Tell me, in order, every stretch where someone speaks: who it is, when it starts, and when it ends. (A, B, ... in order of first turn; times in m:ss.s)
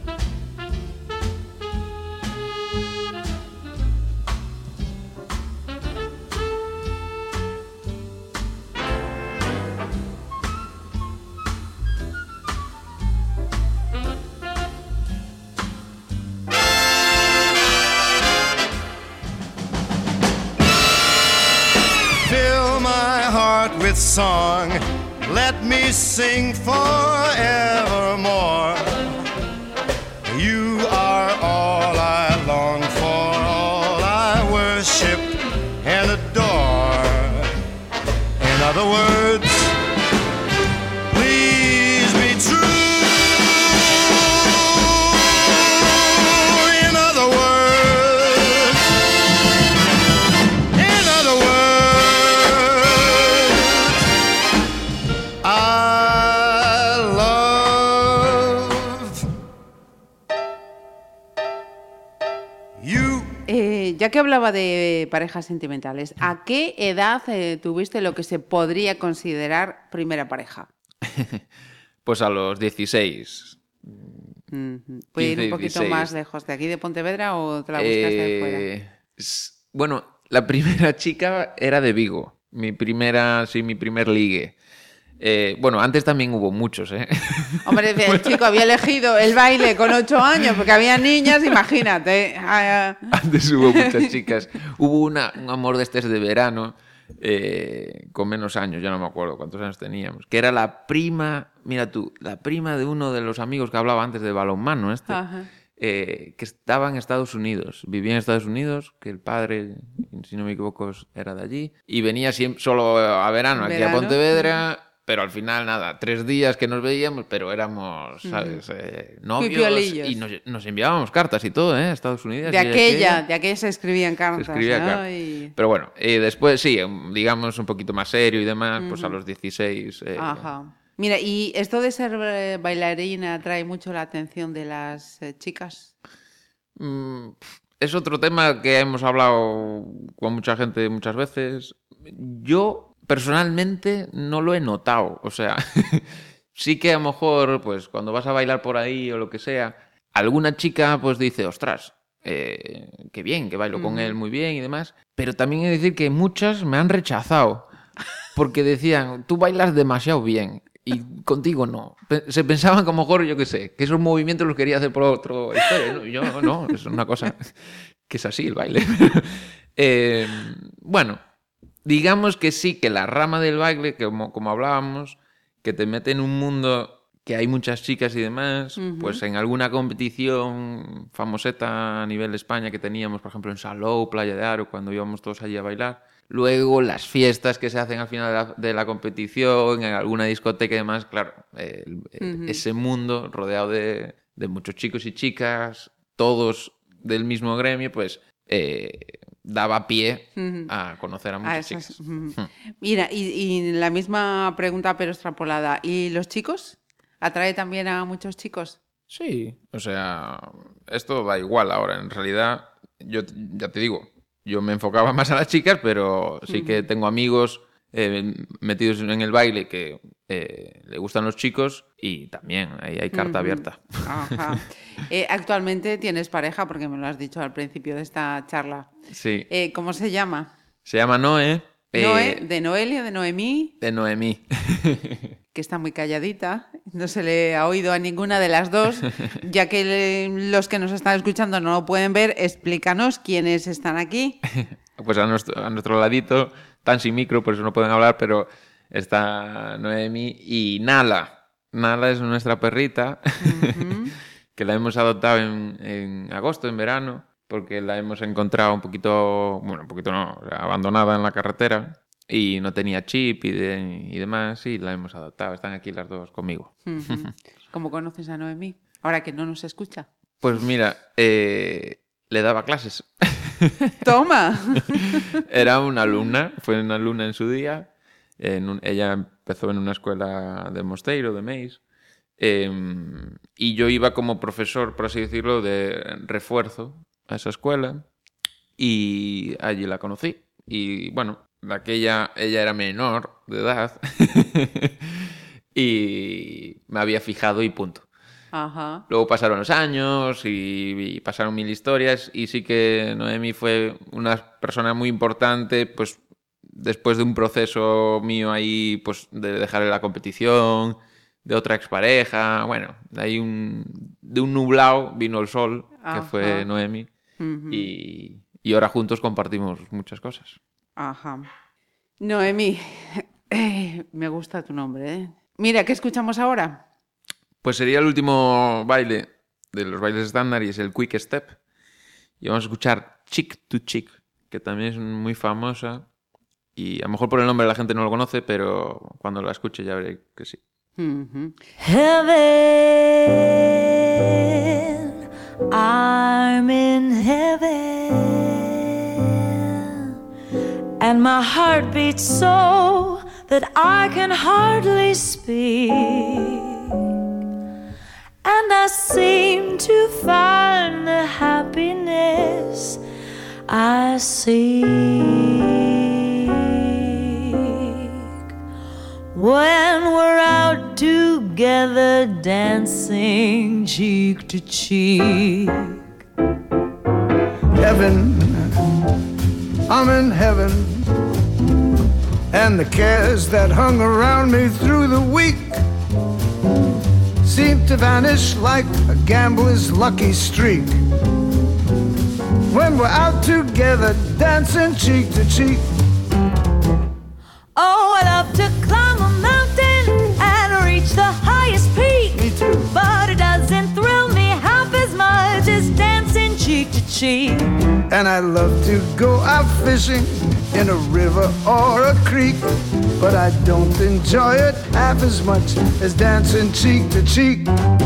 0:22.2-0:29.1 A
0:30.3-0:37.5 A
0:38.4-0:39.7 A
0:41.1-0:43.6 A
0:44.8-0:48.8 A
0:50.7-0:53.9 A
0:55.4-0:59.2 A
1:02.8-1:03.3 A
1:03.5-1:10.7 B
1:11.0-1:11.4 C
1:12.0-1:14.4 C
1:14.5-1:18.7 B
1:15.2-1:16.1 C
1:17.8-1:24.6 C
1:25.2-1:28.6 C
1:27.6-1:33.1 B
1:31.2-1:31.6 C
1:33.1-1:45.2 C
1:33.6-1:34.1 B
1:45.1-1:45.5 B
1:45.8-2:03.2 C
1:53.6-1:54.6 B
1:58.2-1:58.6 B
1:59.4-2:00.2 B
2:02.4-2:05.5 B
2:04.3-2:10.5 C
2:08.8-2:09.2 B
2:10.2-2:15.9 B
2:16.8-2:37.7 C
2:33.8-2:34.2 B
2:38.4-2:51.2 C
2:51.8-3:22.5 C
2:58.8-2:59.2 B
3:12.2-3:12.6 B
3:20.4-3:20.7 B
3:21.4-3:28.8 B
3:29.1-3:44.6 C
3:36.5-3:36.8 B
3:43.1-3:48.9 B
3:49.1-3:49.5 C
3:49.5-3:50.5 B
3:50.8-3:52.4 C
3:52.0-3:53.7 B
3:53.8-3:55.3 C
3:55.5-4:04.4 B
4:04.5-4:14.0 C
4:13.4-4:14.2 B
4:14.6-4:27.3 C
4:26.9-4:30.1 B
4:30.4-4:33.9 C
4:34.0-4:35.3 B
4:35.4-4:41.8 C
4:42.4-4:48.0 C
4:48.8-4:58.1 C
4:58.5-4:59.0 B
4:59.1-5:17.1 C
5:16.0-5:16.7 B
5:17.4-5:17.9 B
5:17.7-5:20.6 C
5:21.0-5:21.5 B
5:22.2-5:26.8 B
5:27.6-5:31.6 C
5:32.4-5:36.1 C
5:36.8-5:40.6 C
5:41.0-5:41.6 B
5:41.8-5:43.8 D
5:45.7-5:49.2 D
5:51.0-5:56.7 D
5:58.4-6:03.0 D
6:03.7-6:06.6 D
6:07.2-6:07.9 D
6:09.3-6:16.0 D
6:17.8-6:18.7 E
6:19.9-6:21.0 E
6:22.5-6:25.8 E
6:27.4-6:31.0 E
6:32.7-6:35.8 E
6:37.8-6:47.7 D
6:42.3-6:42.9 E
6:48.1-6:52.7 E
6:53.2-6:57.7 E